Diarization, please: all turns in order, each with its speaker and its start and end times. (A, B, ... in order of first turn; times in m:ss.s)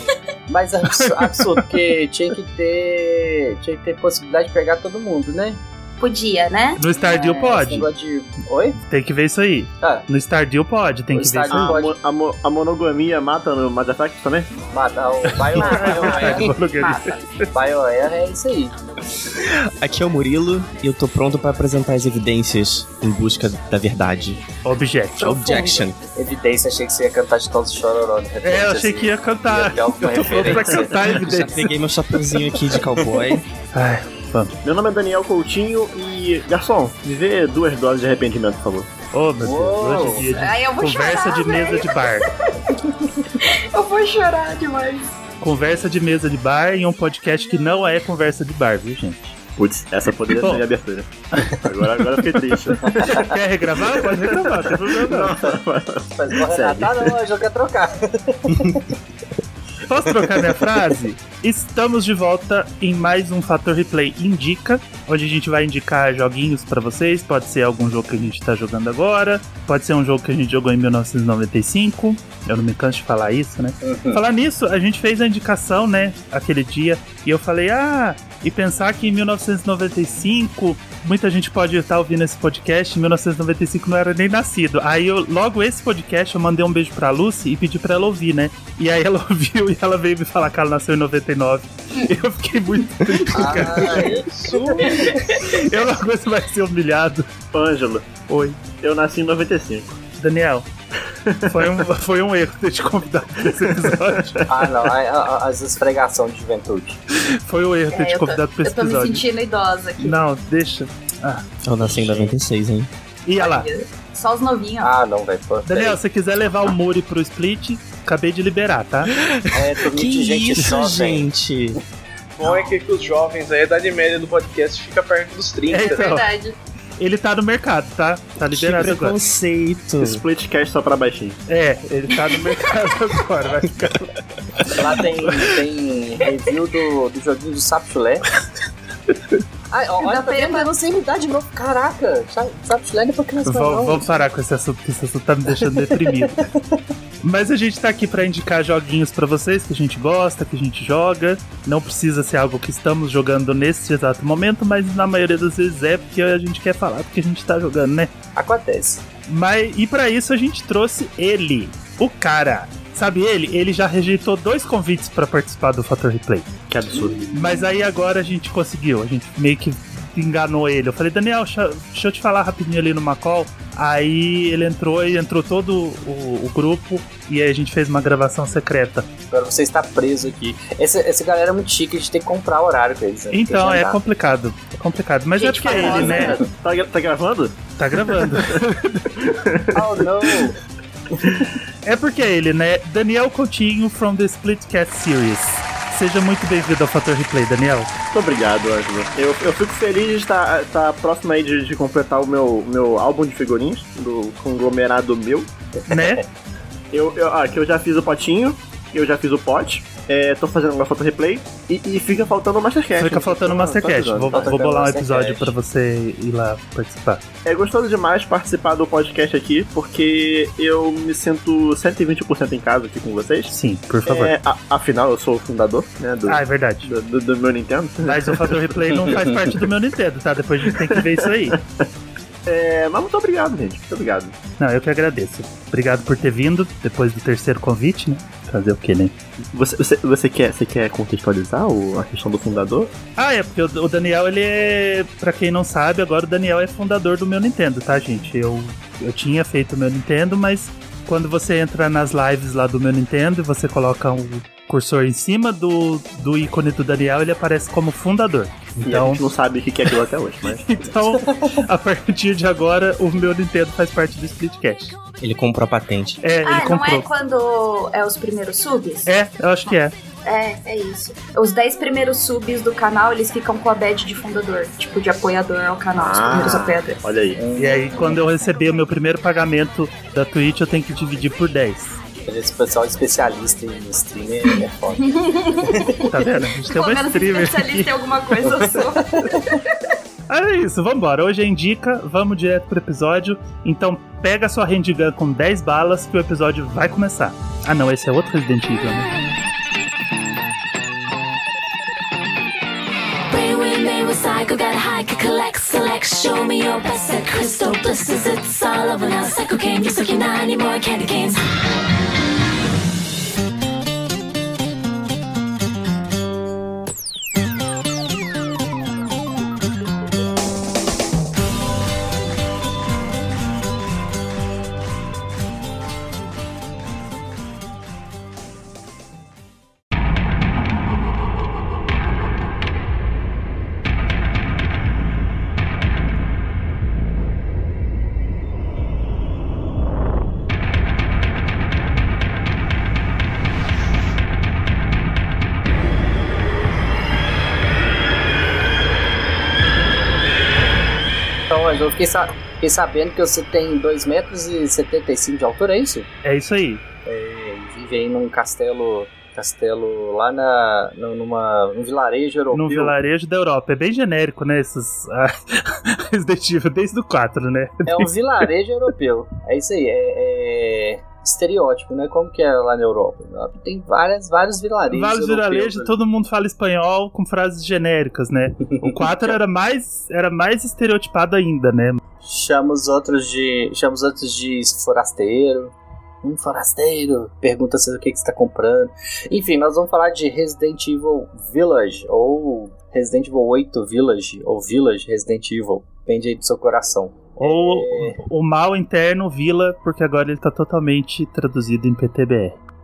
0:00.5-0:05.6 A
0:01.1-0:01.6 B
0:06.0-0:07.4 C
0:06.8-0:07.9 B
0:07.0-0:08.8 A
0:08.8-0:11.8 B
0:11.1-0:12.0 A
0:11.5-0:14.5 D
0:14.7-0:16.5 A
0:15.5-0:17.1 B
0:15.6-0:17.2 C
0:17.5-0:18.7 A
0:19.8-0:24.4 E
0:24.6-0:25.4 B
0:25.2-0:25.9 C
0:25.2-0:26.0 E
0:26.2-0:31.0 A
0:28.4-0:31.7 B
0:31.1-0:33.4 E
0:33.7-0:34.5 B
0:34.6-0:38.9 D
0:39.1-0:42.3 B
0:39.4-0:40.3 A
0:40.3-0:42.8 C
0:43.3-0:45.2 C
0:45.4-0:49.3 B
0:49.6-0:57.2 D
0:53.1-0:55.4 B
0:56.2-0:58.8 A
0:59.8-1:34.1 B
1:00.2-1:00.8 A
1:13.8-1:14.2 A
1:33.0-1:35.2 C
1:33.3-1:34.3 A
1:33.9-1:35.2 F
1:35.0-1:37.3 B
1:37.5-1:40.0 D
1:38.3-1:38.6 B
1:40.2-1:40.7 B
1:41.2-1:41.9 D
1:41.5-1:44.4 B
1:43.4-1:44.7 D
1:44.5-1:47.0 A
1:47.2-1:49.2 B
1:47.9-1:50.2 C
1:50.0-1:51.4 B
1:51.6-1:52.9 E
1:52.0-1:52.4 A
1:53.3-1:53.7 B
1:53.4-1:54.9 C
1:54.8-1:56.0 A
1:55.7-1:59.3 B
1:59.5-2:01.3 A
1:59.9-2:01.8 E
2:02.4-2:06.1 F
2:05.7-2:06.3 B
2:05.8-2:06.6 C
2:07.0-2:09.2 B
2:08.5-2:10.2 E
2:10.0-2:11.4 D
2:11.5-2:14.8 B
2:14.7-2:18.2 A
2:19.7-2:24.1 A
2:20.0-2:20.7 C
2:23.4-2:26.4 B
2:25.9-2:26.8 A
2:27.2-2:38.1 B
2:38.4-2:39.0 A
2:39.3-2:46.5 B
2:46.7-2:47.3 D
2:47.3-2:59.1 B
2:59.3-3:04.0 A
3:03.3-3:06.4 B
3:05.4-3:06.5 C
3:05.8-3:10.3 D
3:07.8-3:09.2 B
3:09.7-3:10.6 A
3:11.2-3:11.5 D
3:11.8-3:17.9 B
3:18.1-3:25.5 D
3:25.9-3:26.2 A
3:25.9-3:26.2 B
3:26.9-3:34.6 D
3:33.0-3:37.2 B
3:34.3-3:35.5 A
3:37.4-3:43.5 D
3:43.5-3:44.4 B
3:44.0-3:49.4 D
3:46.3-3:46.9 B
3:48.0-3:51.6 B
3:49.0-3:49.4 A
3:50.7-3:51.8 D
3:52.4-3:54.4 D
3:54.6-3:59.2 B
3:59.5-4:02.9 D
4:03.2-4:19.2 B
4:18.8-4:20.8 D
4:20.5-4:25.0 B
4:21.3-4:21.6 A
4:25.2-4:26.2 E
4:26.2-4:27.1 B
4:26.4-4:29.1 C
4:29.1-4:29.9 B
4:30.2-4:37.0 C
4:36.0-4:37.4 D
4:37.4-4:38.0 A
4:37.6-4:42.0 B
4:42.3-4:45.1 A
4:45.0-4:49.8 C
4:45.6-4:46.0 A
4:46.1-4:47.9 B
4:48.7-4:49.5 A
4:50.3-4:59.1 B
5:03.3-5:11.4 G
5:51.5-5:56.1 A
5:56.2-5:56.8 B
5:57.0-6:03.0 A
6:02.5-6:08.5 B
6:07.9-6:16.0 A
6:14.9-6:22.0 B
6:18.7-6:19.4 A
6:22.2-6:38.2 A
6:37.4-6:42.6 B